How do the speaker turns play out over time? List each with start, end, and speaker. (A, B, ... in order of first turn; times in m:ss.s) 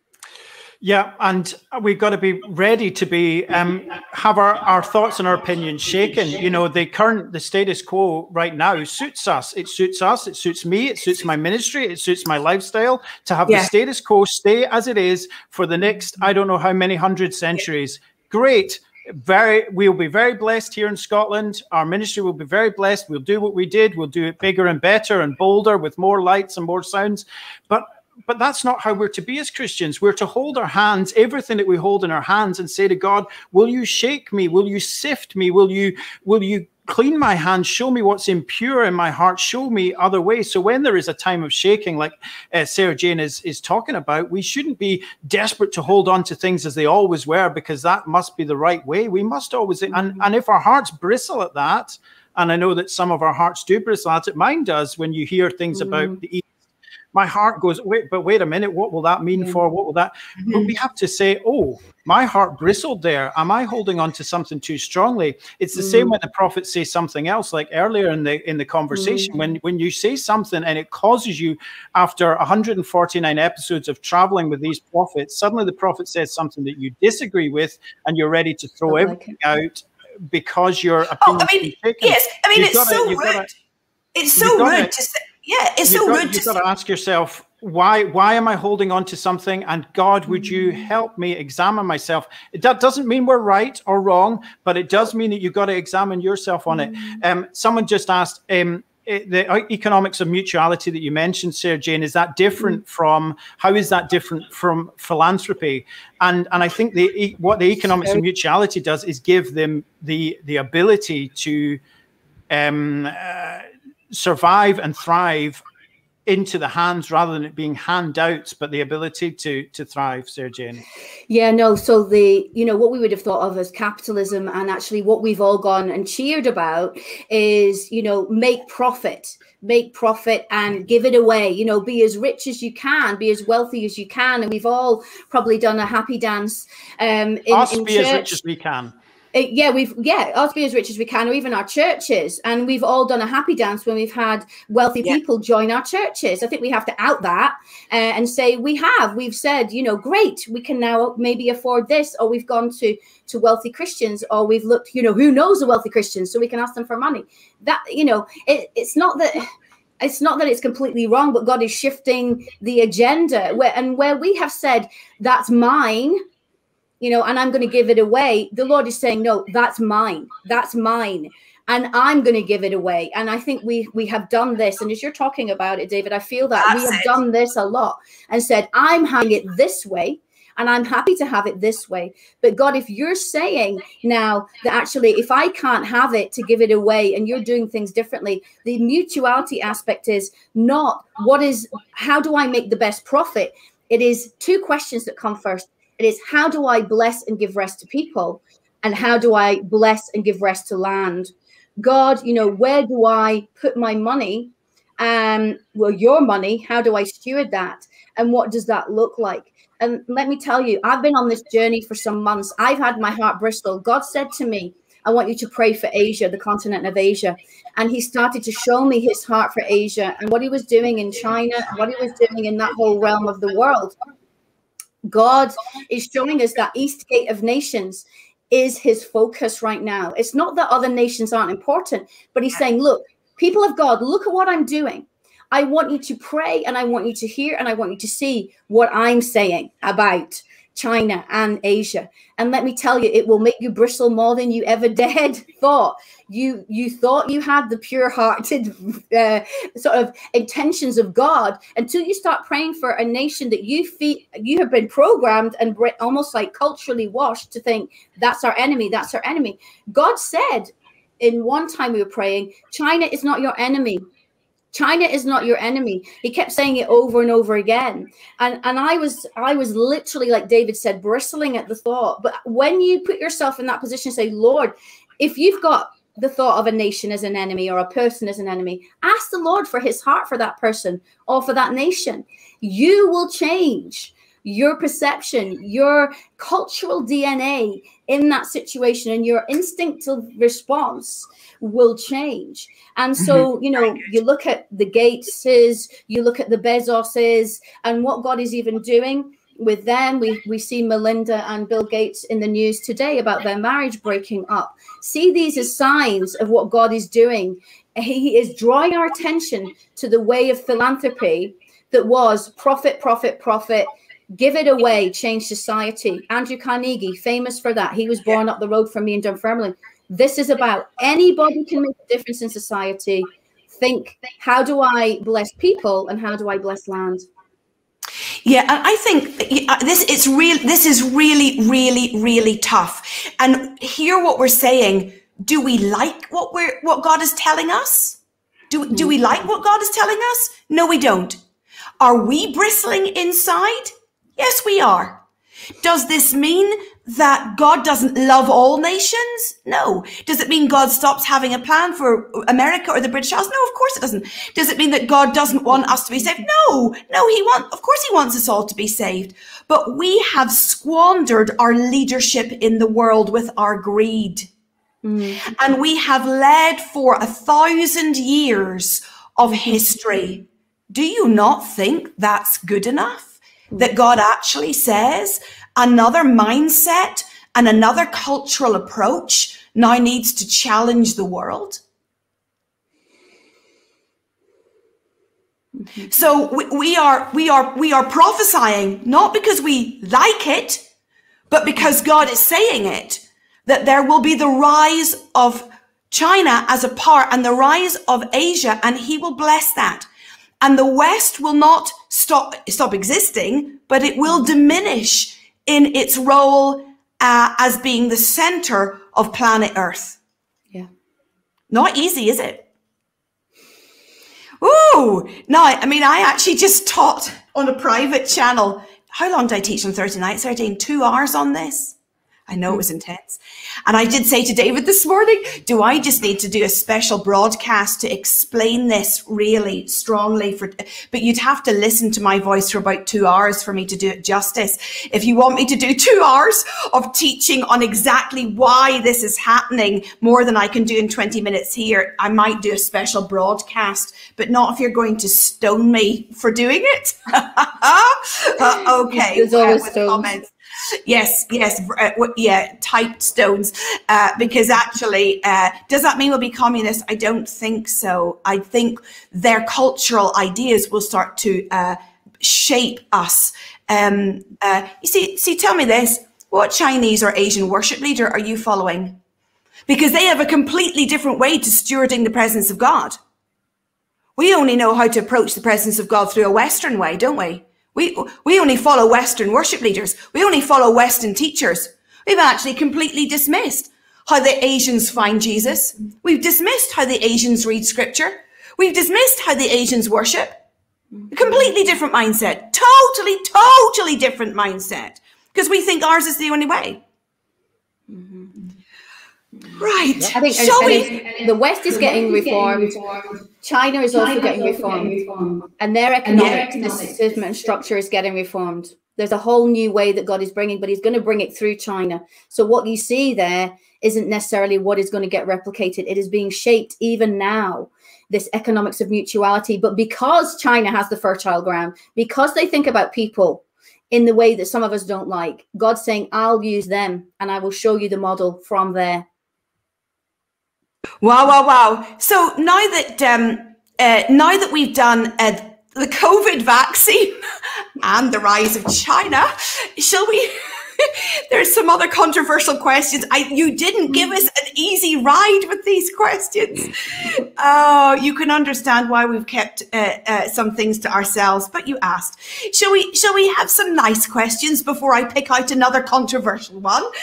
0:00.8-0:56.5 A
0:55.7-0:56.2 B
0:57.1-1:23.5 A
0:59.3-0:59.6 B
1:00.4-1:00.6 C
1:05.7-1:06.1 B
1:08.9-1:09.3 B
1:18.9-1:19.4 B
1:21.2-1:23.5 C
1:24.1-1:26.6 C
1:24.4-1:24.9 A
1:25.8-1:51.8 A
1:30.3-1:30.9 B
1:36.7-1:37.2 B
1:52.5-1:55.6 A
1:56.2-2:00.8 A
2:01.3-2:18.3 B
2:17.5-2:18.9 A
2:19.3-2:39.4 B
2:40.0-2:46.2 B
2:47.0-3:44.0 B
2:56.6-2:57.2 C
3:45.0-4:24.0 B
4:24.7-5:27.2 B
4:53.2-4:53.5 C
5:28.4-5:38.2 C
5:38.7-5:41.4 C
5:42.0-5:45.2 C
5:45.8-6:04.5 C
5:55.7-5:56.4 B
6:05.0-6:05.4 B
6:05.4-6:21.8 C
6:09.4-6:10.0 B
6:26.1-6:30.8 C
6:31.5-6:40.0 C
6:40.6-6:50.2 C
6:51.7-6:52.6 C
6:54.6-7:02.0 C
7:02.5-7:30.5 C
7:28.8-7:30.3 B
7:31.0-7:49.2 C
7:49.9-7:53.2 C
7:54.4-8:10.6 C
8:11.2-8:11.7 B
8:11.3-8:17.0 C
8:18.1-8:18.5 B
8:19.7-8:21.2 C
8:20.3-8:49.2 B
8:26.3-8:26.7 C
8:51.2-8:57.4 C
8:58.0-9:17.1 C